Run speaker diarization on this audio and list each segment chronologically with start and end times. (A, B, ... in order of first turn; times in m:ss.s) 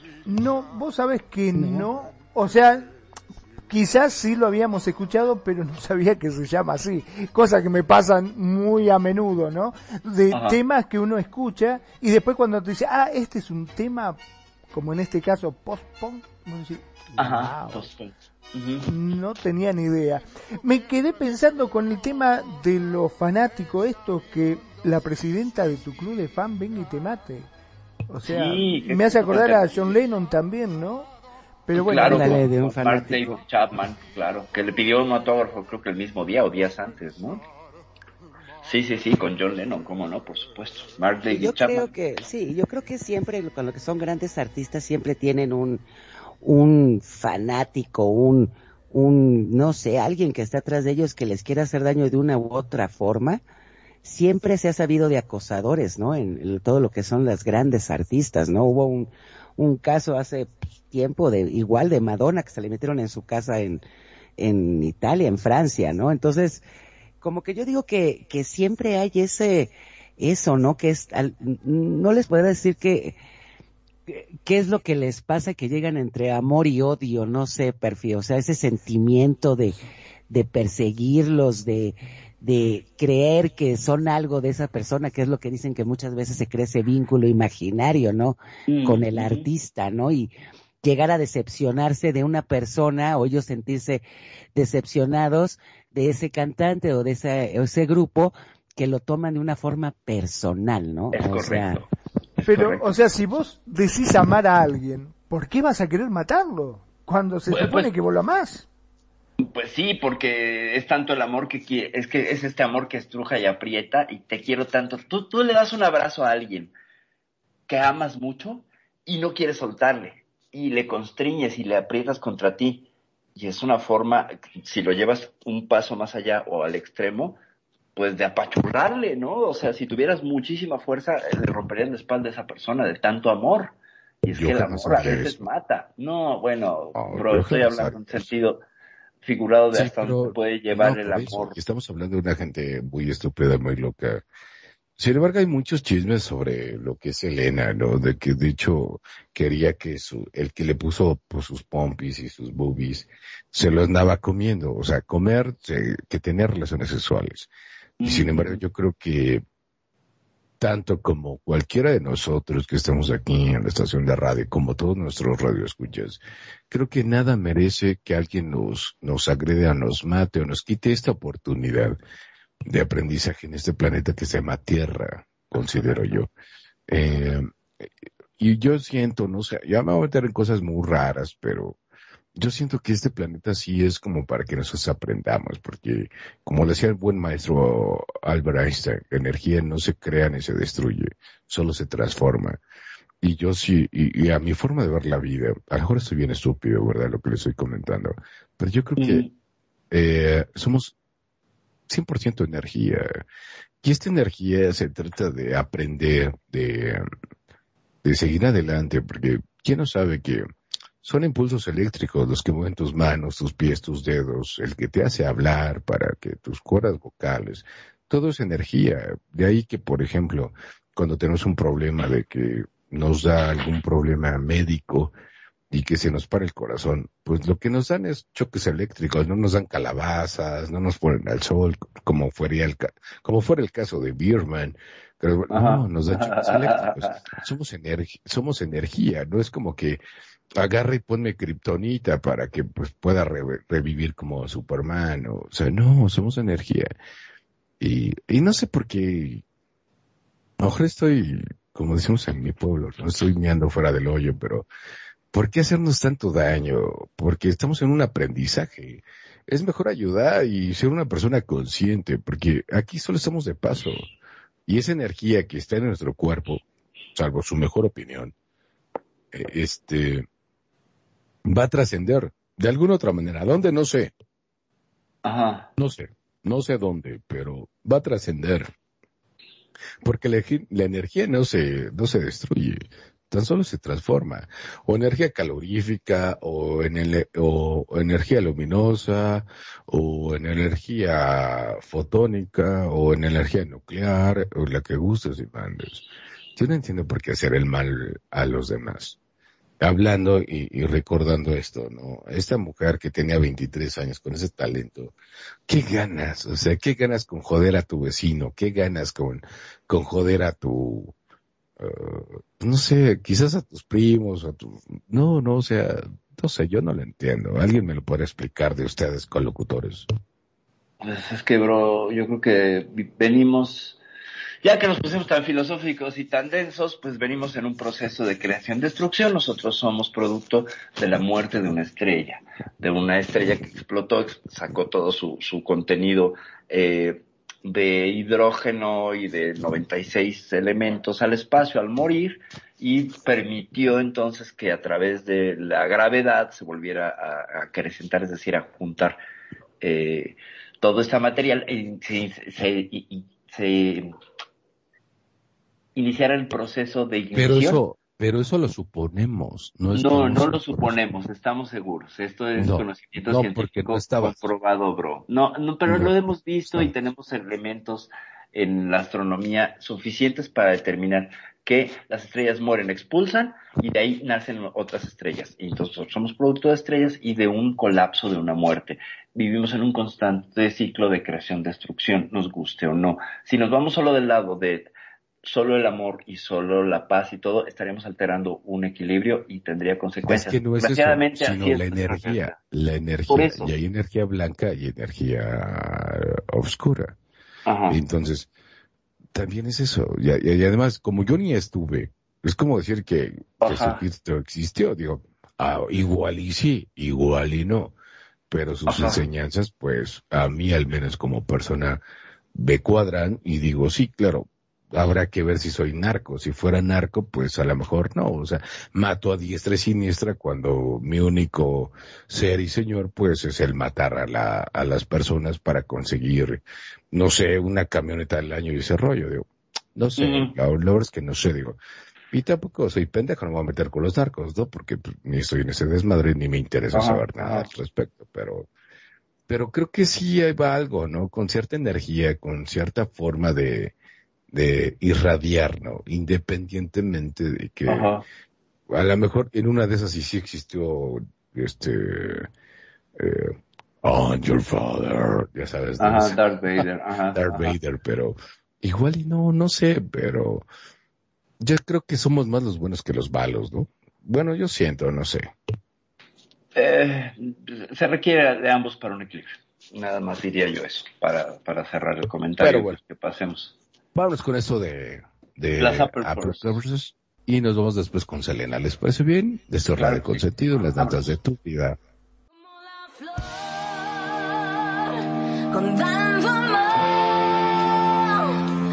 0:00.3-0:02.9 A
0:01.5-0:01.9 B
0:03.7-0:14.2 A
0:10.3-0:10.6 C
0:14.7-0:17.9 A
0:17.2-0:18.9 C
0:18.9-0:27.5 A
0:28.1-0:31.1 A
0:28.2-0:30.0 C
0:31.7-0:32.4 A
0:31.8-0:37.4 C
0:31.9-0:33.4 B
0:38.6-0:41.9 C
0:41.3-0:45.8 B
0:46.4-0:53.4 B
0:54.0-1:03.8 B
1:04.4-1:06.6 B
1:07.2-1:13.2 B
1:14.1-1:30.3 B
1:28.7-1:29.5 C
1:30.8-1:34.0 B
1:34.6-1:41.8 B
1:41.1-1:41.9 C
1:42.4-1:43.0 C
1:42.5-1:48.7 A
1:47.5-1:47.9 C
1:49.4-1:56.7 C
1:57.7-2:07.4 C
2:08.0-2:18.6 C
2:14.4-2:15.5 D
2:17.0-2:18.3 D
2:19.2-2:21.6 C
2:19.7-2:24.2 D
2:25.0-2:37.5 D
2:38.0-2:38.6 C
2:38.0-2:39.4 D
2:40.6-2:52.0 D
2:52.6-2:56.3 D
2:56.9-3:01.8 D
3:02.4-3:12.6 D
3:13.2-3:19.3 D
3:19.0-3:19.3 C
3:19.9-3:21.0 D
3:21.9-3:23.2 D
3:23.8-3:27.0 D
3:28.0-3:30.5 D
3:31.0-3:45.1 D
3:45.7-4:00.0 D
3:55.5-3:57.3 C
4:00.6-4:06.9 D
4:07.8-4:09.4 D
4:10.6-4:14.7 D
4:15.3-4:24.1 D
4:24.7-4:26.6 D
4:27.2-4:28.3 D
4:29.3-4:30.3 D
4:31.4-4:34.1 D
4:35.2-4:35.7 C
4:35.8-4:38.7 D
4:40.0-4:56.0 D
4:56.6-4:59.2 D
4:59.8-5:05.1 D
5:05.7-5:11.2 D
5:11.8-5:20.1 D
5:21.0-5:24.0 C
5:24.6-5:49.2 C
5:49.8-5:54.1 C
5:56.0-5:57.8 C
5:57.3-6:00.9 D
5:59.9-6:24.9 C
6:02.6-6:04.5 D
6:05.9-6:06.1 D
6:06.7-6:06.9 D
6:25.4-6:32.6 C
6:30.3-6:37.2 D
6:33.3-6:33.7 C
6:37.7-6:38.0 C
6:37.9-6:38.5 D
6:39.3-6:47.9 D
6:43.6-6:44.0 C
6:48.5-6:52.0 D
6:48.9-6:49.2 C
6:52.6-7:11.8 D
7:10.2-7:10.5 C
7:12.3-7:18.7 D
7:16.9-7:17.7 C
7:19.5-7:23.9 D
7:24.5-7:28.1 D
7:27.9-7:28.2 C
7:28.9-7:32.5 D
7:33.2-7:36.4 D
7:36.0-7:37.7 C
7:37.4-7:40.7 D
7:41.6-7:45.5 D
7:46.8-7:53.8 C
7:52.6-7:53.0 D
7:54.2-8:02.0 D
7:55.8-7:56.7 C
8:00.0-8:01.3 C
8:02.7-8:05.1 E
8:05.7-8:08.6 E